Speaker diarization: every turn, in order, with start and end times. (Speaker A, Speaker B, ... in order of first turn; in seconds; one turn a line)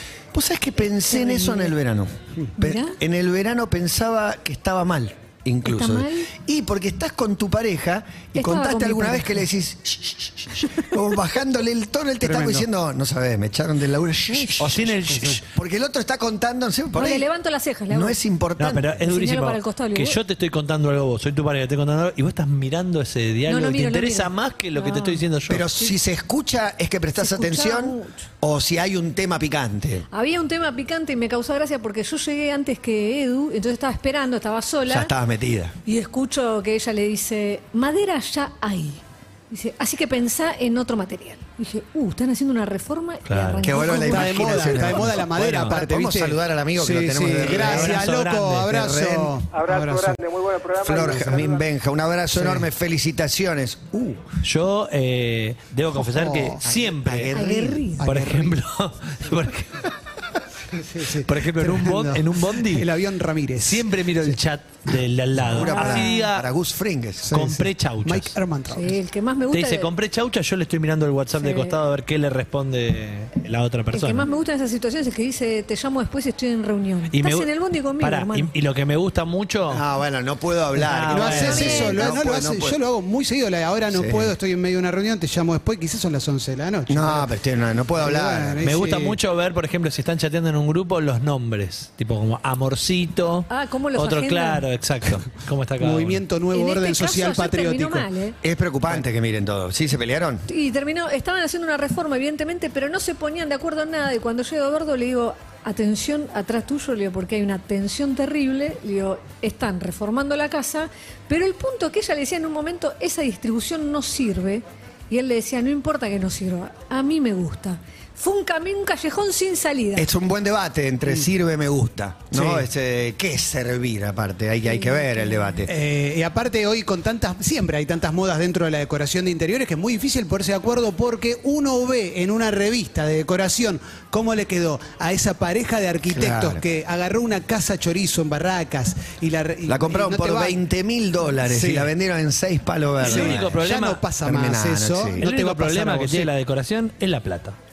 Speaker A: 0.3-14.9
Speaker B: 1.1-1.7
Speaker B: 2.6-2.9
Speaker B: 5.6-6.3
Speaker B: 8.3-9.4
Speaker C: 12.2-12.6
Speaker D: 14.6-15.4
Speaker C: 15.1-15.4
Speaker A: 15.5-17.2
Speaker B: 16.9-18.2
Speaker A: 17.9-19.0
Speaker D: 18.6-25.7
Speaker B: 19.1-20.2
Speaker B: 23.5-25.2
Speaker A: 25.5-30.1
Speaker B: 27.2-28.2
Speaker B: 30.1-35.1
Speaker A: 34.9-35.7
Speaker B: 35.9-44.5
Speaker D: 43.3-43.6
Speaker A: 43.6-48.1
Speaker C: 43.8-50.2
Speaker D: 44.3-45.8
Speaker D: 47.4-48.7
Speaker A: 48.7-49.4
Speaker E: 49.5-51.6
Speaker A: 50.8-54.3
Speaker C: 52.3-52.7
Speaker D: 54.4-57.3
Speaker C: 55.9-56.6
Speaker A: 56.6-57.9
Speaker B: 57.3-58.0
Speaker C: 58.0-58.6
Speaker D: 58.0-59.9
Speaker C: 60.7-64.4
Speaker D: 61.2-62.9
Speaker D: 63.6-66.5
Speaker A: 65.4-67.3
Speaker B: 65.6-66.3
Speaker C: 67.2-69.0
Speaker D: 67.3-68.3
Speaker B: 68.7-69.9
Speaker D: 69.5-74.3
Speaker B: 71.4-71.8
Speaker B: 73.9-78.5
Speaker D: 77.1-79.8
Speaker A: 79.7-82.8
Speaker D: 80.8-81.9
Speaker C: 81.1-87.3
Speaker B: 81.3-82.2
Speaker A: 83.9-84.3
Speaker A: 86.9-88.6
Speaker C: 88.0-89.2
Speaker D: 88.6-96.2
Speaker B: 93.5-94.6
Speaker C: 95.8-98.0
Speaker B: 96.5-98.3
Speaker A: 98.4-100.4
Speaker B: 100.5-120.1
Speaker A: 120.0-125.7
Speaker C: 122.3-122.7
Speaker B: 124.7-125.5
Speaker C: 125.7-140.6
Speaker A: 136.1-136.6
Speaker A: 139.7-143.6
Speaker C: 141.4-141.9
Speaker D: 143.0-144.0
Speaker C: 143.0-146.3
Speaker A: 144.2-145.2
Speaker D: 145.2-147.6